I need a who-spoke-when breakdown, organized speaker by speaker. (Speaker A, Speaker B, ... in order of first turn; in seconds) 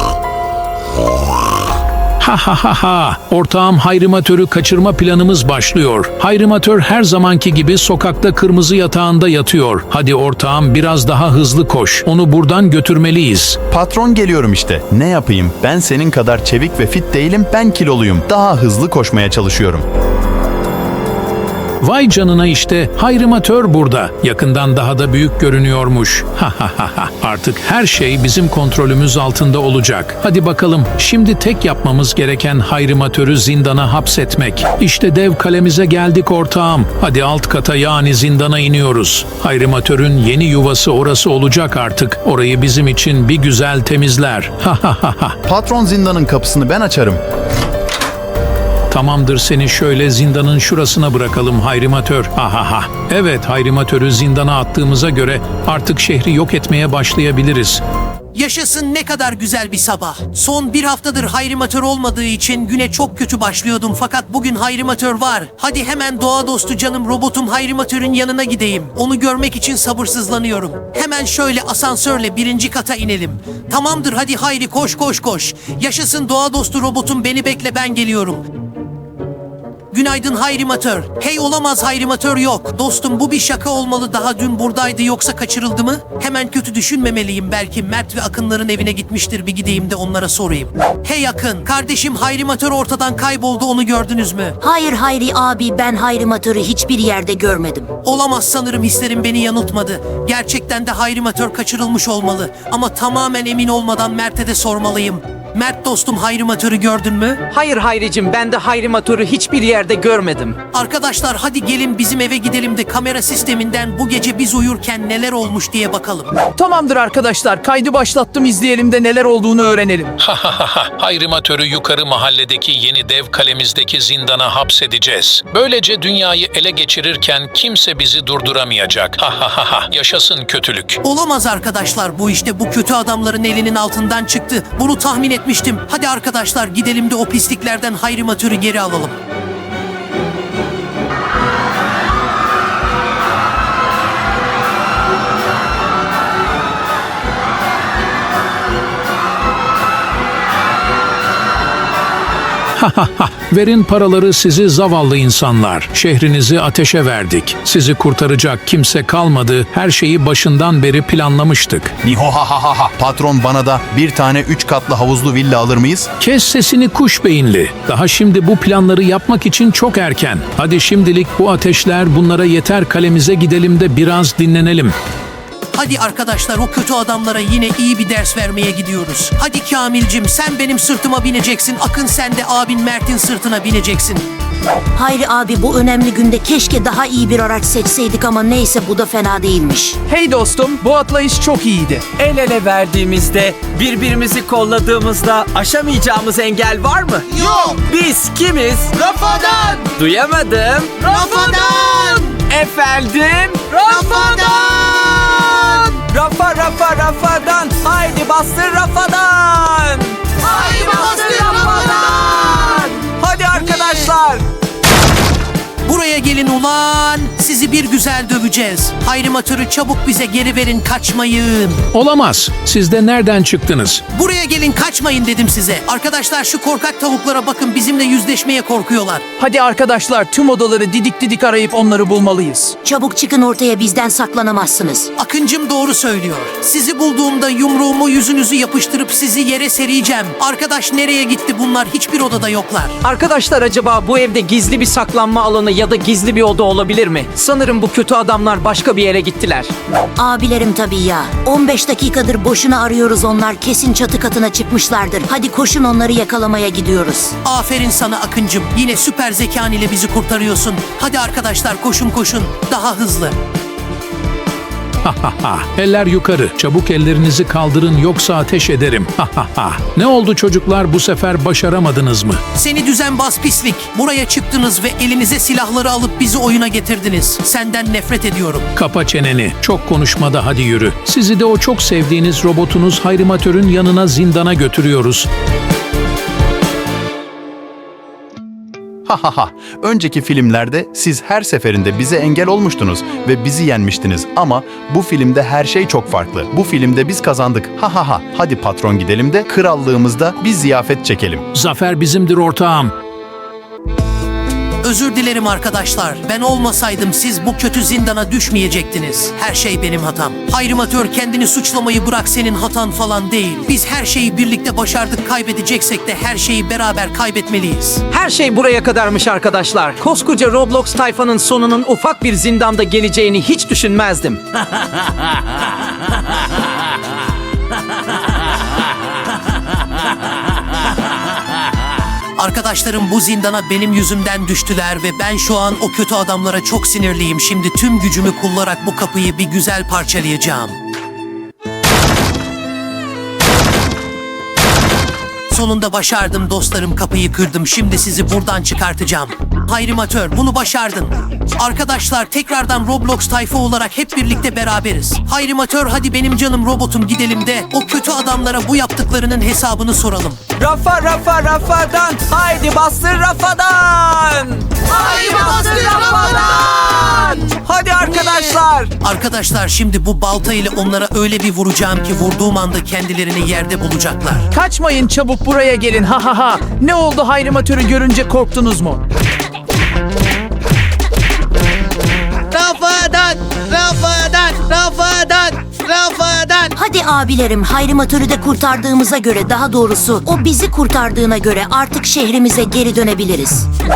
Speaker A: 2.2-13.6, 21.8-45.4, 48.9-57.8, 120.2-131.0, 152.8-161.9, 166.2-174.9, 221.9-224.0, 265.0-272.4, 278.8-285.3, 301.5-302.9
Speaker B: 13.7-19.8, 45.5-47.2, 162.0-166.1, 289.1-301.4
Speaker C: 58.4-78.4, 79.9-94.6, 98.0-107.4, 110.7-116.3, 131.0-139.2, 175.8-184.3, 215.8-221.8, 224.1-229.2, 235.2-242.9, 257.4-263.4, 272.6-278.7, 304.8-318.0, 332.4-340.8, 345.5-360.4, 369.0-374.5, 382.5-386.7
Speaker D: 94.6-97.9, 184.9-190.0, 232.8-235.1, 250.2-257.4, 386.8-393.7
Speaker E: 107.5-110.6, 243.0-249.7, 318.1-324.4
Speaker F: 116.6-120.2, 190.1-192.3, 229.4-232.8, 374.5-379.0
Speaker G: 197.3-197.8, 198.9-200.0, 201.0-202.4, 203.7-204.9, 210.6-212.2, 365.5-366.5